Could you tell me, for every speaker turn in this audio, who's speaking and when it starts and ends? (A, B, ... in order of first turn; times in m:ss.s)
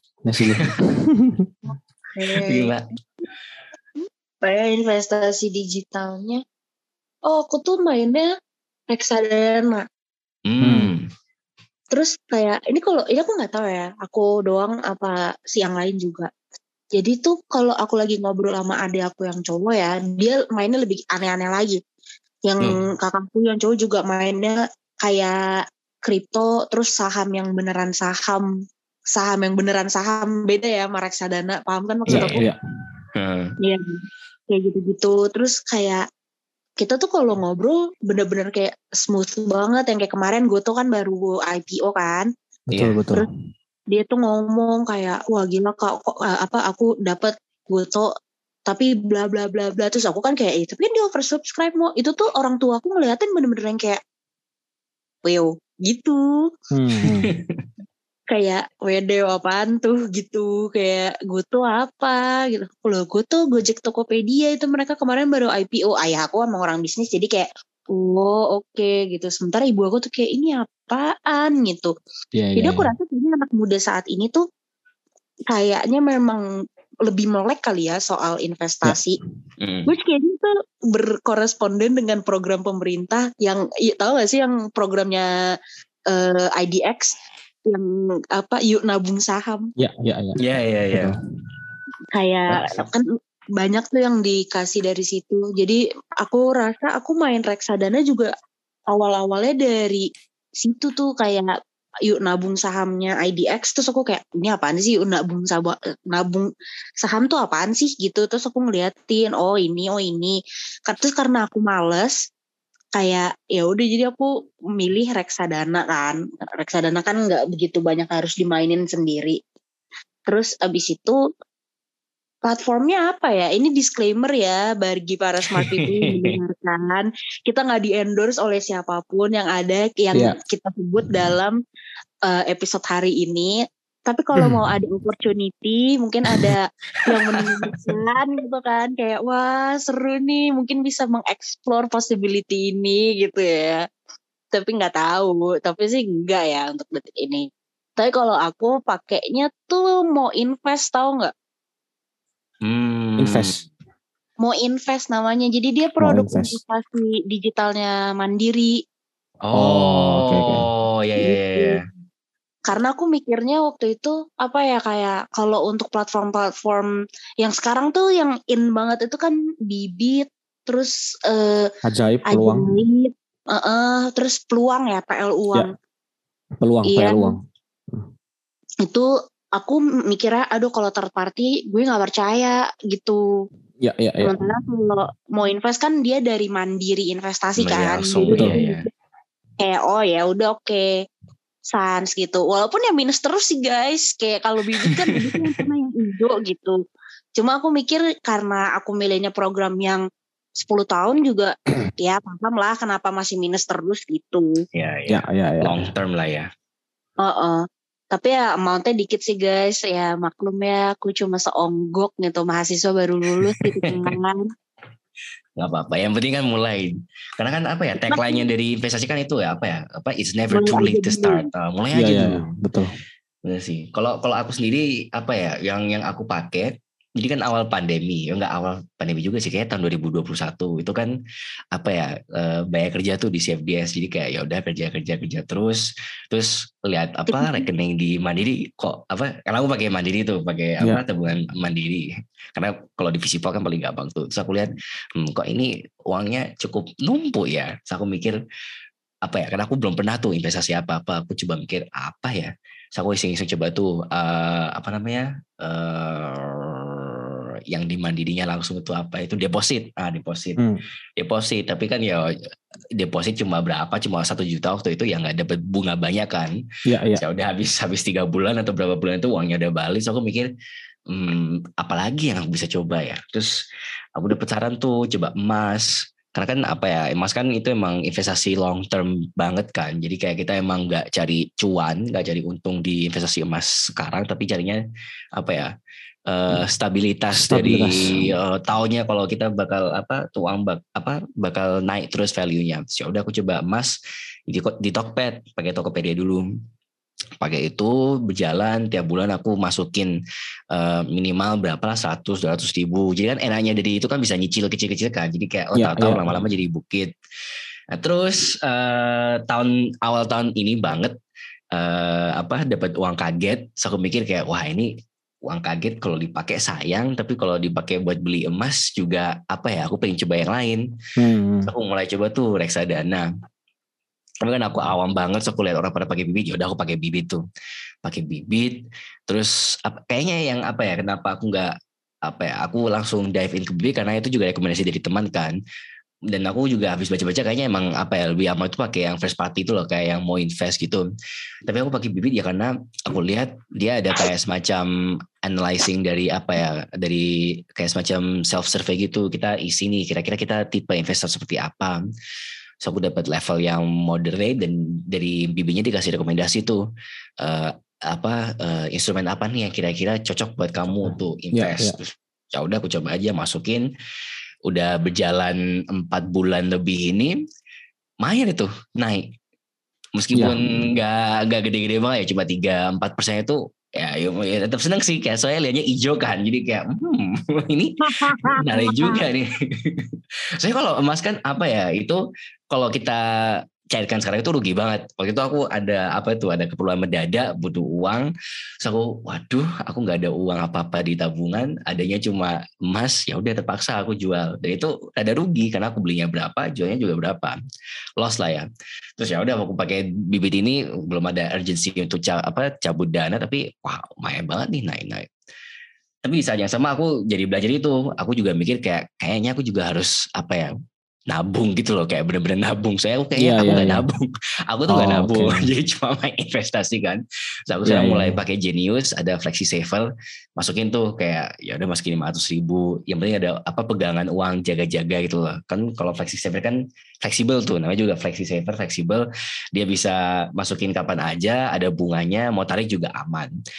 0:00.2-0:01.5 A
0:02.2-0:02.7 B
0:02.4-0:02.8 C
0:04.4-0:06.4 B
0:07.3-0:08.3 B
0:08.9-0:09.9 B
0:10.5-0:11.1 C
0:10.6-0:10.9 A
0:11.9-0:16.3 B
0:17.0-0:21.8 B
0:22.5-0:28.5 B
0:29.1-0:32.4 B
0:32.1-0:32.5 C
0:32.1-0:32.6 A
0:33.1-0:33.6 C
0:33.6-0:36.0 B
0:36.8-0:42.3 B
0:42.7-0:43.3 A
0:42.7-0:43.0 C
0:43.9-0:48.1 B
0:48.7-0:54.0 B
0:55.2-0:56.5 B
0:56.7-0:57.3 A
0:57.0-0:57.6 C
0:58.3-1:11.9 B
1:12.4-1:12.9 A
1:12.6-1:14.4 B
1:15.5-1:16.4 B
1:17.1-1:19.2 B
1:19.6-1:19.9 C
1:19.9-1:25.3 B
1:26.1-1:27.2 B
1:27.7-1:29.7 B
1:29.8-1:30.4 A
1:30.4-1:31.2 C
1:32.1-1:38.3 B
1:32.5-1:32.8 A
1:38.9-1:40.1 B
1:40.6-1:41.6 B
1:42.1-1:46.5 B
1:47.0-1:50.4 B
1:50.9-1:52.2 B
1:53.0-1:59.4 B
2:00.3-2:01.2 B
2:02.4-2:11.6 B
2:05.5-2:06.4 C
2:12.3-2:23.9 B
2:14.4-2:14.6 A
2:16.4-2:18.0 C
2:24.5-2:31.3 B
2:32.6-2:33.6 C
2:33.2-2:33.6 A
2:34.4-2:38.8 B
2:36.0-2:36.6 A
2:39.4-2:41.8 C
2:39.5-2:40.7 A
2:41.2-2:41.8 B
2:42.7-2:51.7 B
2:51.8-2:52.8 A
2:52.3-2:55.7 B
2:56.6-2:58.1 A
2:56.8-2:57.4 B
2:58.8-3:03.2 B
3:03.8-3:04.4 A
3:04.2-3:08.9 B
3:07.6-3:08.8 C
3:09.6-3:10.9 B
3:11.7-3:16.8 B
3:14.8-3:15.5 C
3:17.4-3:20.0 B
3:20.6-3:24.6 B
3:24.7-3:26.5 C
3:25.1-3:25.9 A
3:27.2-3:34.5 B
3:33.6-3:34.1 C
3:35.6-3:42.5 C
3:38.1-3:38.5 B
3:40.5-3:41.4 B
3:41.9-3:42.9 A
3:43.4-3:51.2 C
3:51.7-4:08.4 C
3:57.3-3:57.6 B
4:09.2-4:20.6 C
4:21.2-4:22.3 C
4:23.0-4:26.6 C
4:26.9-4:27.2 A
4:27.2-4:30.5 C
4:31.1-4:33.6 C
4:34.2-4:44.8 C
4:45.4-4:45.7 C
4:46.3-4:54.0 C
4:47.4-4:48.3 A
4:54.5-4:56.4 C
4:57.4-5:00.2 C
5:00.7-5:07.1 C
5:05.8-5:06.4 A
5:07.9-5:11.2 C
5:11.7-5:14.9 C
5:15.4-5:20.9 C
5:21.2-5:21.7 A
5:21.7-5:23.3 C
5:24.4-5:27.4 C
5:28.0-5:31.7 C
5:32.2-5:35.6 C
5:36.3-5:41.1 C
5:41.7-5:52.0 C
5:52.8-5:56.8 C
5:57.4-6:03.9 C
6:01.0-6:02.0 A
6:04.7-6:07.4 C
6:08.2-6:09.3 C
6:10.2-6:28.3 C
6:10.4-6:10.9 A
6:18.0-6:19.2 B
6:28.8-6:37.6 C
6:38.2-6:38.7 C
6:39.2-6:45.3 C
6:46.2-6:50.7 C
6:51.3-7:13.5 C
6:53.4-6:54.1 A
6:54.9-6:55.7 A
6:57.9-6:58.4 A